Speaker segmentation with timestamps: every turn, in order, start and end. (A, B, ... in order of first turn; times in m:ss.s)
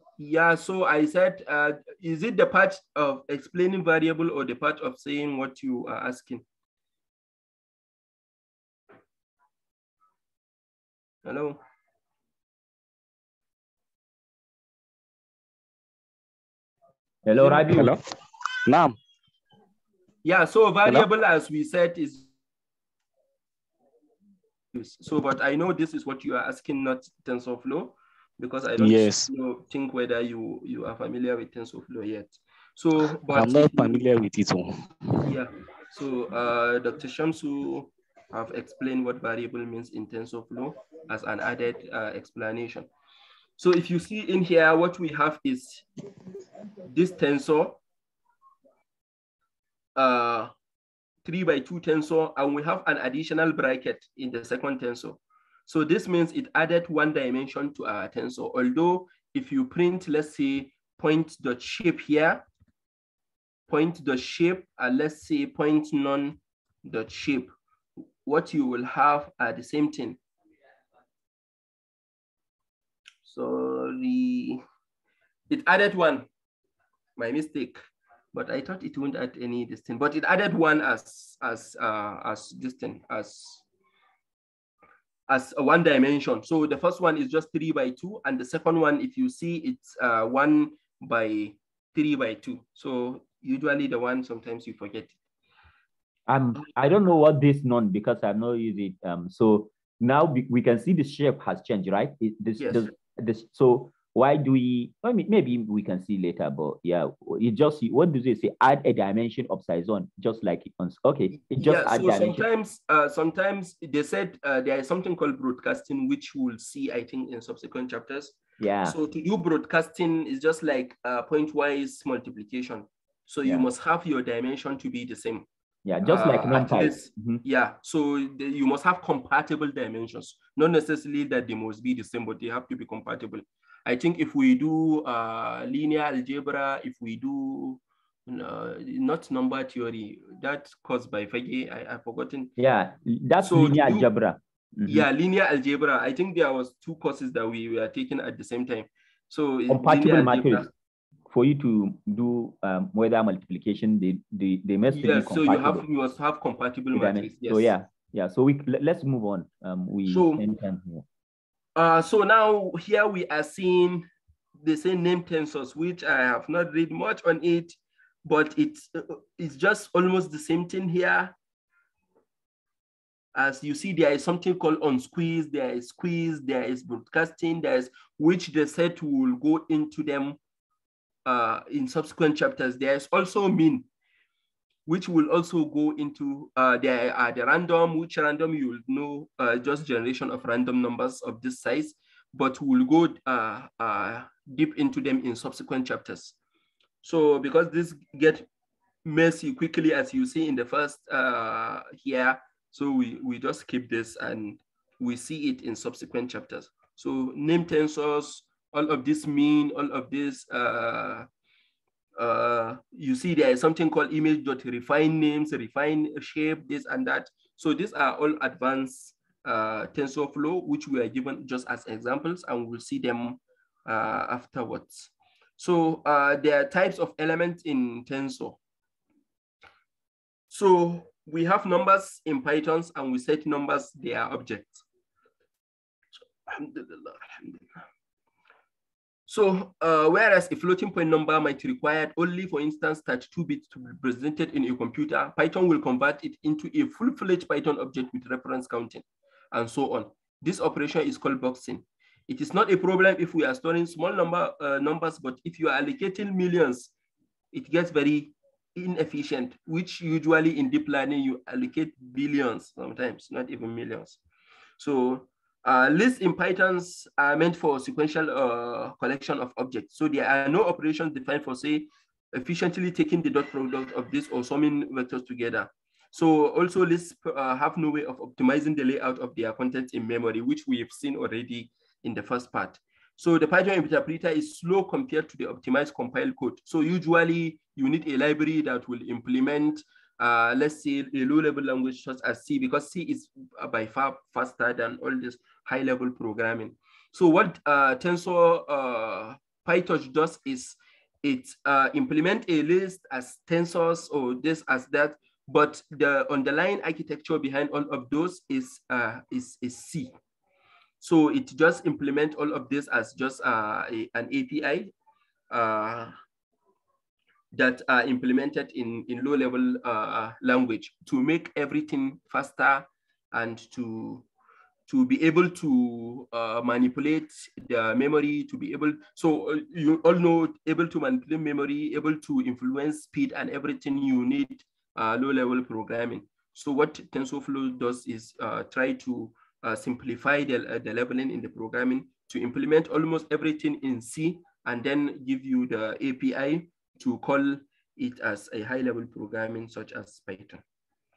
0:00.2-0:06.4 A
0:11.2-0:11.6 A
0:17.2-0:18.0 B
0:17.4-0:17.9 A
0:18.7-0:19.0 C
0:20.2-0:22.3 A
0:24.7-0:34.0 A
0:28.8-0:29.3 C
0:33.3-0:35.2 C
0:35.2-0:42.9 A
0:43.6-0:45.8 A
0:46.8-0:47.8 A
0:50.0-0:50.5 A
0:51.2-1:02.5 A
1:03.7-1:07.5 A
1:08.2-1:10.2 A
1:13.2-1:14.6 A
1:15.5-1:16.3 A
1:17.2-1:17.8 A
1:18.3-1:23.6 A
1:25.3-1:35.2 A
1:36.3-1:52.4 B
1:42.6-1:42.9 A
1:51.6-2:05.5 A
1:58.6-1:59.0 B
2:05.8-2:07.4 B
2:06.0-2:22.5 A
2:22.6-2:25.1 B
2:23.4-2:24.1 A
2:24.9-2:30.7 A
2:29.7-2:30.7 B
2:31.3-2:35.8 B
2:34.9-2:37.7 A
2:36.9-2:41.0 B
2:40.1-2:40.4 A
2:41.8-2:44.1 A
2:44.6-2:51.4 A
2:53.4-3:00.4 A
3:01.2-3:03.9 A
3:04.9-3:16.4 A
3:17.0-3:18.5 A
3:19.0-3:31.3 A
3:32.2-3:48.6 A
3:50.5-3:54.8 A
3:56.5-3:57.8 A
3:59.3-4:16.9 A
4:17.5-4:24.2 A
4:24.8-5:10.1 A
5:11.0-5:14.9 A
5:15.5-5:16.1 A
5:17.5-5:24.3 A
5:24.9-5:50.6 A